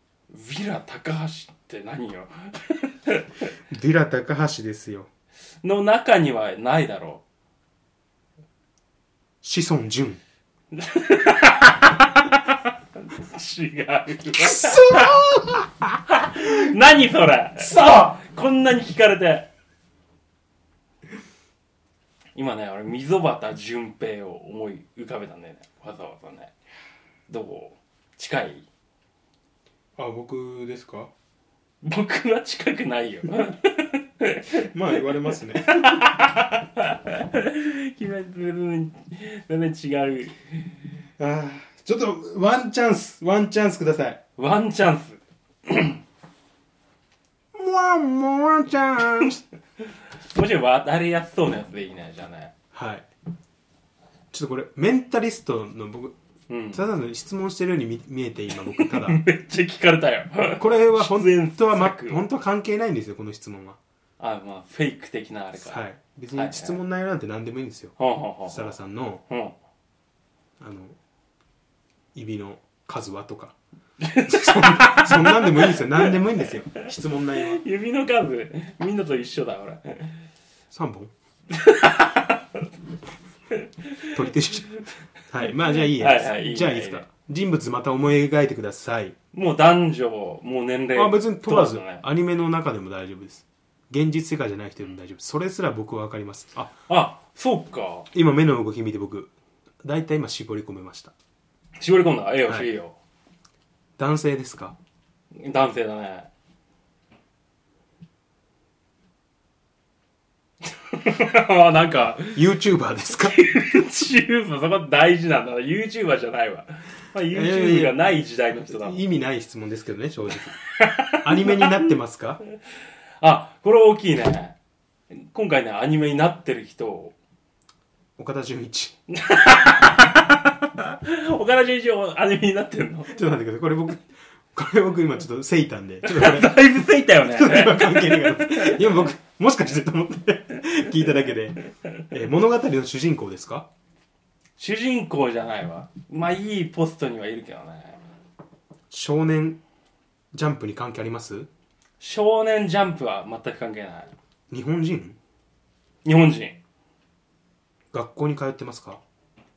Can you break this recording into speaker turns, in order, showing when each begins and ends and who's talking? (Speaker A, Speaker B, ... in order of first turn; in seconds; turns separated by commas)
Speaker A: 0.3-3.5, Speaker B: 3.7-5.1, Speaker A: 5.6-7.2, Speaker B: 9.4-10.2, Speaker A: 10.7-15.2, Speaker B: 14.4-16.4, Speaker A: 16.1-19.5, Speaker B: 17.6-18.1, Speaker A: 22.3-26.5, Speaker A: 27.3-28.6, Speaker B: 30.0-31.1, Speaker A: 31.8-34.7, Speaker B: 34.5-36.1, Speaker A: 35.7-40.7, Speaker B: 41.2-44.2, Speaker A: 44.4-46.0, Speaker B: 47.5-49.4, Speaker A: 50.3-52.5, Speaker B: 52.7-53.1, Speaker B: 54.3-56.1, Speaker A: 56.5-56.8, Speaker B: 56.7-59.2, Speaker A: 58.7-62.2, Speaker B: 60.6-63.8, Speaker A: 64.2-65.8, Speaker B: 65.6-68.0, Speaker A: 66.3-66.8, Speaker A: 68.0-68.8, Speaker B: 68.5-69.2, Speaker A: 69.3-69.5, Speaker B: 70.6-71.0, Speaker B: 72.1-73.5, Speaker A: 74.0-76.5, Speaker B: 74.2-77.6, Speaker A: 77.4-80.2, Speaker B: 80.7-81.1, Speaker A: 81.5-82.7, Speaker A: 83.5-84.3, Speaker B: 84.1-84.7, Speaker B: 85.3-89.1, Speaker A: 85.9-87.0, Speaker A: 89.3-92.0, Speaker B: 90.9-96.7, Speaker A: 96.9-98.1, Speaker B: 98.1-101.1, Speaker A: 101.8-103.0, Speaker B: 104.0-104.8, Speaker A: 105.3-106.3, Speaker A: 110.7-112.4, Speaker B: 112.3-113.5, Speaker A: 113.2-119.0, Speaker B: 117.3-118.0, Speaker B: 118.7-120.5, Speaker A: 120.7-121.8, Speaker B: 121.2-122.4, Speaker A: 123.2-124.5, Speaker A: 125.1-127.1, Speaker B: 128.2-128.9, Speaker A: 129.1-133.2, Speaker B: 133.1-136.6, Speaker A: 136.0-139.0, Speaker B: 137.2-143.7, Speaker A: 144.6-148.0, Speaker B: 148.9-149.6, Speaker B: 150.3-151.5, Speaker A: 152.0-154.1, Speaker B: 154.5-155.2, Speaker A: 156.0-156.6, Speaker B: 157.9-159.0